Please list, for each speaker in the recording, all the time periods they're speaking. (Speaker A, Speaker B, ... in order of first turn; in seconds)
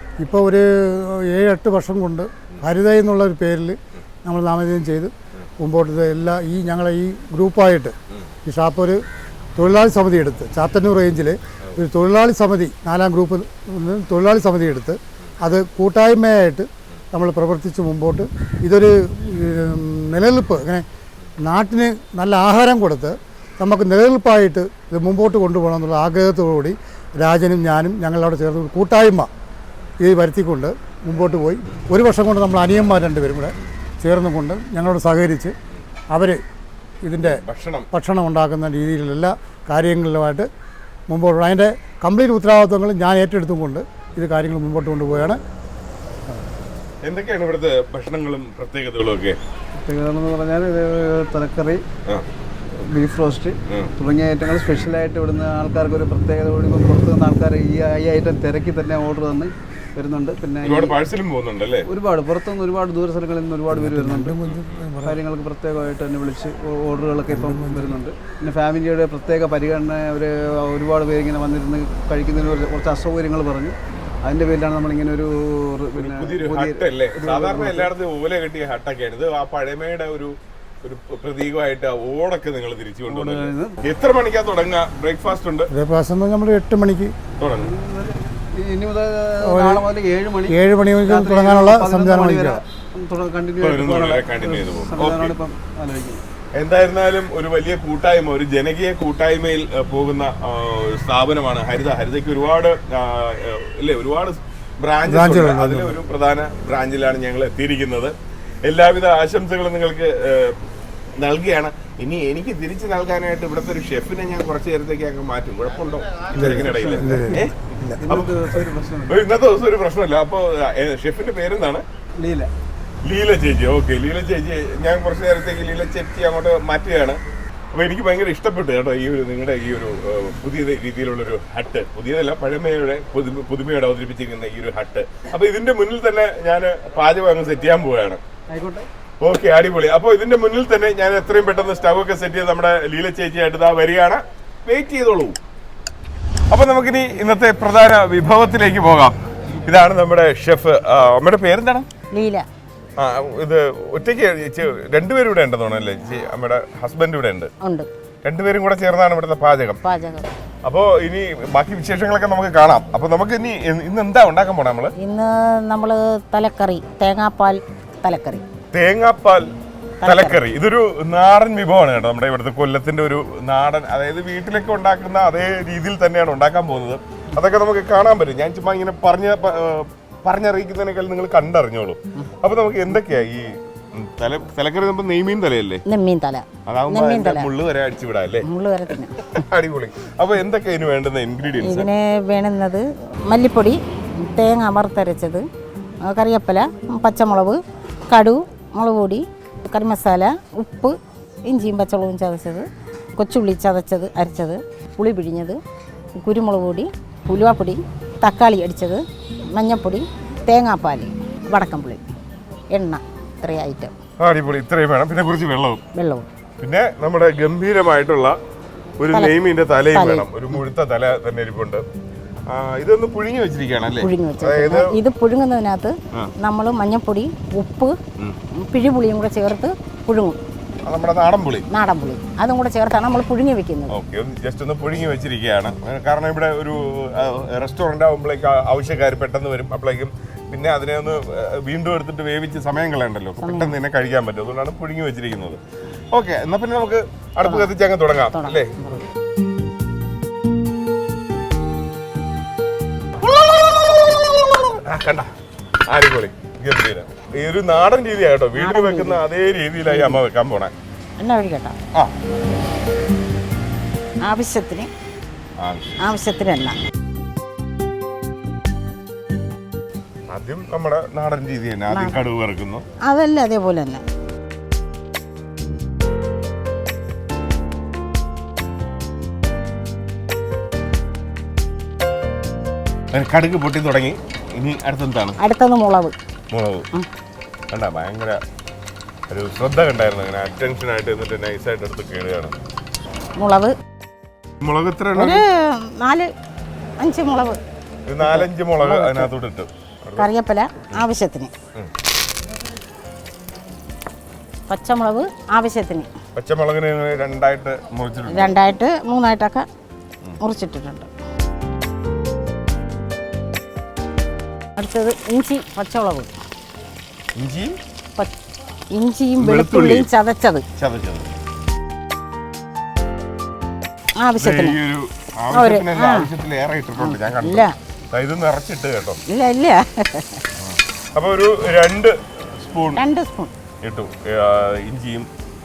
Speaker A: 0.2-9.0, 9.6-20.8, 21.4-29.3, 30.0-35.5, 36.1-36.4, 37.1-40.5, 41.1-45.4, 63.7-65.2, 67.3-67.9, 85.7-87.2, 89.4-89.8, 90.5-92.6, 105.1-105.9, 116.3-118.0
Speaker B: 37.2-37.9, 47.0-49.4, 60.6-61.9, 64.4-64.9, 76.0-85.7, 87.4-87.7, 93.6-95.4, 96.5-108.1, 108.7-110.6, 111.2-117.5, 118.1-118.5, 119.1-121.8, 123.1-127.2, 127.7-138.2, 139.2-145.4, 146.5-151.9, 153.0-157.5, 158.2-159.8, 160.6-164.9, 168.7-169.5, 170.0-185.8, 186.7-188.5, 189.3-191.9, 214.2-215.8, 216.6-218.4, 219.0-221.8, 222.5-225.0, 230.8-231.7, 233.9-245.6, 246.1-248.8, 253.4-255.3, 255.9-260.7, 265.6-265.9, 270.3-272.9, 283.1-285.4, 286.5-286.9, 287.7-288.4, 289.3-292.6, 294.6-295.4, 298.1-300.3, 306.4-308.6, 317.4-317.8, 319.4-320.1, 320.8-321.3, 324.4-329.2, 330.6-333.0, 333.8-335.3
Speaker C: 49.8-51.8, 52.7-61.0, 61.8-64.4, 65.0-77.9, 83.1-83.8, 87.6-96.2, 116.4-117.4, 118.0-119.2, 122.2-122.5, 138.5-138.9
Speaker D: 152.1-152.5, 157.6-157.9, 159.8-160.3, 165.0-168.4, 170.0-170.4, 185.9-187.5, 188.4-189.3, 191.6-195.4, 196.0-200.9, 201.5-205.6, 206.2-209.0, 209.5-212.0, 212.7-213.9, 215.9-216.2, 219.9-220.3, 223.9-227.9, 228.6-230.4, 231.7-234.0, 243.4-243.8, 248.3-249.0, 258.6-259.2, 259.9-260.2, 261.2-261.8, 264.2-264.9, 266.0-266.8, 271.9-272.2, 273.1-274.0, 285.4-286.1, 293.4-293.7, 295.1-296.3, 297.0-297.6, 298.2-299.3, 300.2-301.5, 304.7-306.1, 308.3-309.7, 310.4-311.1, 314.8-316.3, 318.9-320.6, 324.2-324.8, 325.5-326.3, 327.0-327.7, 329.3-330.4, 332.9-333.5